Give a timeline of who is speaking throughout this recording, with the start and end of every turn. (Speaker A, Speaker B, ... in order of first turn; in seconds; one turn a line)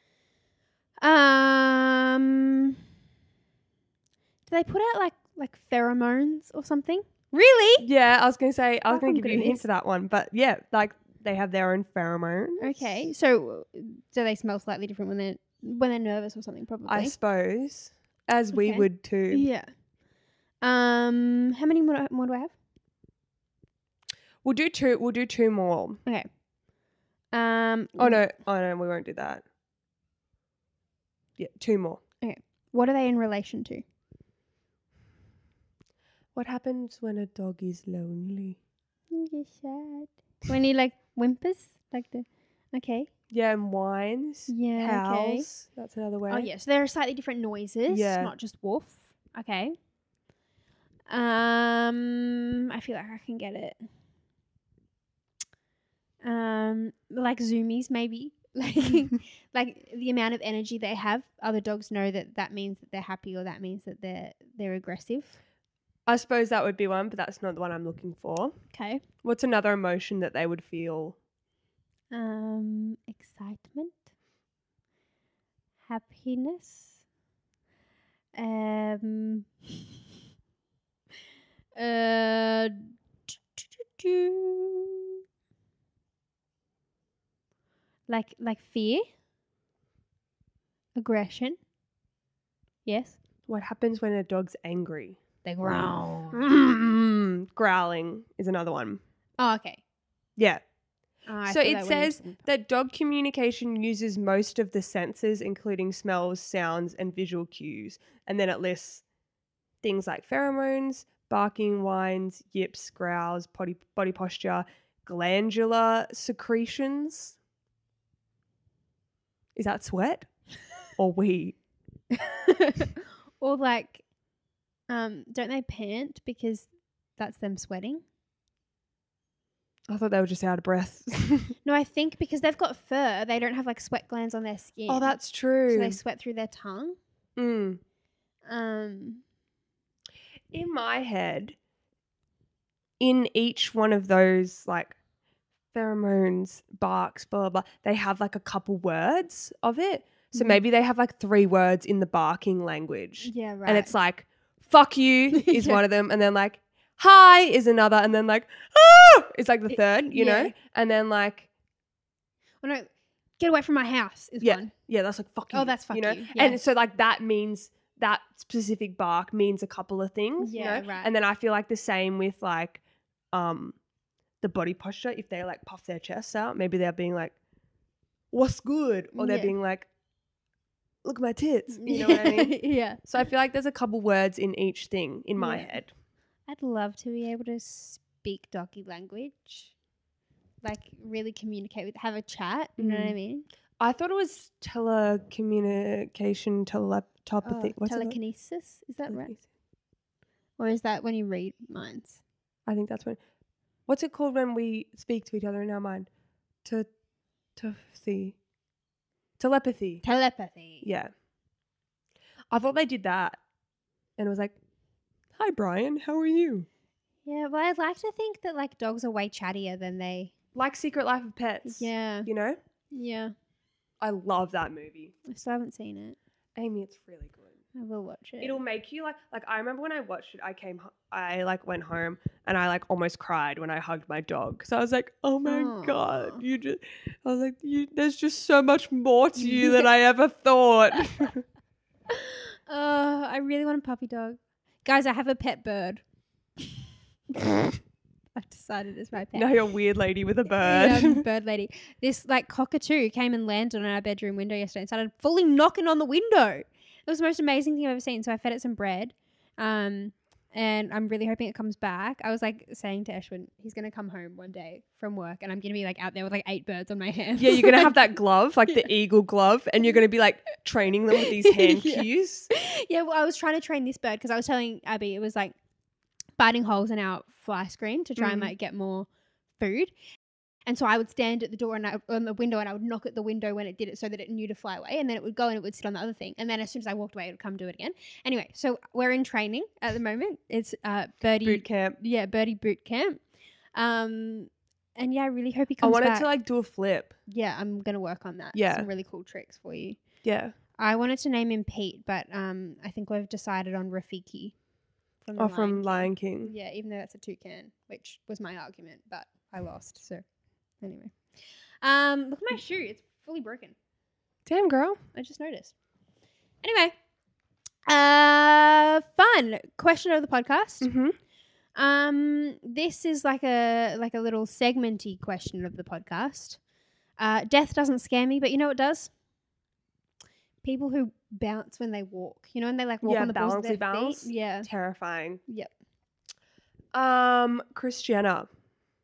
Speaker A: 1.0-2.8
Speaker A: 4.5-7.9
Speaker B: 7.8-13.1
Speaker A: 8.9-9.7
Speaker A: 12.6-17.1
Speaker B: 16.9-19.5
Speaker A: 18.5-19.7
Speaker A: 20.6-22.5
Speaker B: 24.4-26.0
Speaker A: 27.3-28.2
Speaker B: 28.0-29.4
Speaker B: 31.4-32.0
Speaker A: 32.2-33.8
Speaker B: 36.4-38.6
Speaker A: 39.1-43.1
Speaker B: 43.3-46.5
Speaker A: 44.5-45.5
Speaker A: 46.3-49.8
Speaker B: 47.9-48.3
Speaker A: 51.1-53.9
Speaker A: 56.2-65.4
Speaker B: 66.1-68.5
Speaker A: 68.7-69.0
Speaker B: 69.2-71.2
Speaker A: 72.1-74.1
Speaker A: 75.9-77.0
Speaker A: 78.3-79.9
Speaker A: 81.8-85.0
Speaker A: 88.1-89.1
Speaker A: 91.0-91.6
Speaker A: 92.9-93.2
Speaker B: 93.5-99.0
Speaker A: 95.5-96.4
Speaker A: 99.4-99.8
Speaker B: 100.4-100.6
Speaker A: 101.3-102.5
Speaker B: 101.5-109.0
Speaker B: 109.8-117.4
Speaker B: 119.5-120.3
Speaker B: 121.0-121.6
Speaker A: 122.2-124.0
Speaker A: 124.9-128.0
Speaker B: 129.9-131.6
Speaker A: 131.6-137.0
Speaker B: 134.9-136.0
Speaker B: 137.4-137.8
Speaker A: 138.5-139.2
Speaker B: 140.5-141.6
Speaker B: 143.0-145.0
Speaker B: 145.7-161.5
Speaker A: 150.3-150.6
Speaker A: 153.2-153.9
Speaker A: 155.3-155.8
Speaker A: 160.1-160.6
Speaker A: 162.6-164.7
Speaker B: 164.4-173.8
Speaker A: 165.5-166.6
Speaker A: 170.4-171.1
Speaker B: 174.4-177.3
Speaker B: 178.3-179.9
Speaker A: 179.2-179.5
Speaker B: 181.0-185.9
Speaker A: 181.7-183.1
Speaker A: 185.4-185.8
Speaker A: 186.5-189.7
Speaker A: 190.6-193.5
Speaker B: 192.8-193.2
Speaker B: 193.8-198.2
Speaker A: 197.4-199.4
Speaker B: 199.1-199.4
Speaker A: 200.6-202.2
Speaker B: 202.7-203.2
Speaker B: 203.9-206.1
Speaker B: 207.6-208.4
Speaker B: 209.4-210.0
Speaker A: 210.0-210.9
Speaker B: 210.8-211.1
Speaker B: 212.5-213.4
Speaker B: 214.2-214.6
Speaker B: 215.3-216.7
Speaker A: 217.3-220.3
Speaker B: 220.6-222.6
Speaker A: 221.7-222.3
Speaker A: 222.9-223.3
Speaker B: 224.0-225.1
Speaker A: 225.3-226.2
Speaker B: 226.6-227.5
Speaker A: 227.8-228.6
Speaker B: 228.4-241.4
Speaker A: 235.4-236.4
Speaker A: 239.4-239.9
Speaker A: 242.1-246.0
Speaker A: 247.3-247.7
Speaker A: 248.3-249.6
Speaker B: 249.3-251.2
Speaker A: 250.6-268.1
Speaker B: 267.4-272.5
Speaker A: 271.4-275.6
Speaker A: 276.4-279.1
Speaker B: 278.2-278.5
Speaker A: 279.6-279.9
Speaker A: 280.7-293.2
Speaker B: 291.4-292.0
Speaker A: 293.8-296.3
Speaker B: 295.8-297.2
Speaker A: 297.3-300.0
Speaker B: 298.5-298.9
Speaker B: 300.2-300.6
Speaker A: 300.8-304.5
Speaker A: 305.2-310.2
Speaker B: 305.4-306.5
Speaker A: 310.8-311.2
Speaker A: 311.8-313.8
Speaker B: 314.5-315.0
Speaker A: 315.1-315.7
Speaker A: 316.6-316.9
Speaker A: 317.9-320.9
Speaker B: 320.8-321.2
Speaker A: 321.8-326.6
Speaker A: 327.2-329.1
Speaker A: 330.6-334.7
Speaker B: 333.0-335.4
Speaker B: 336.9-338.5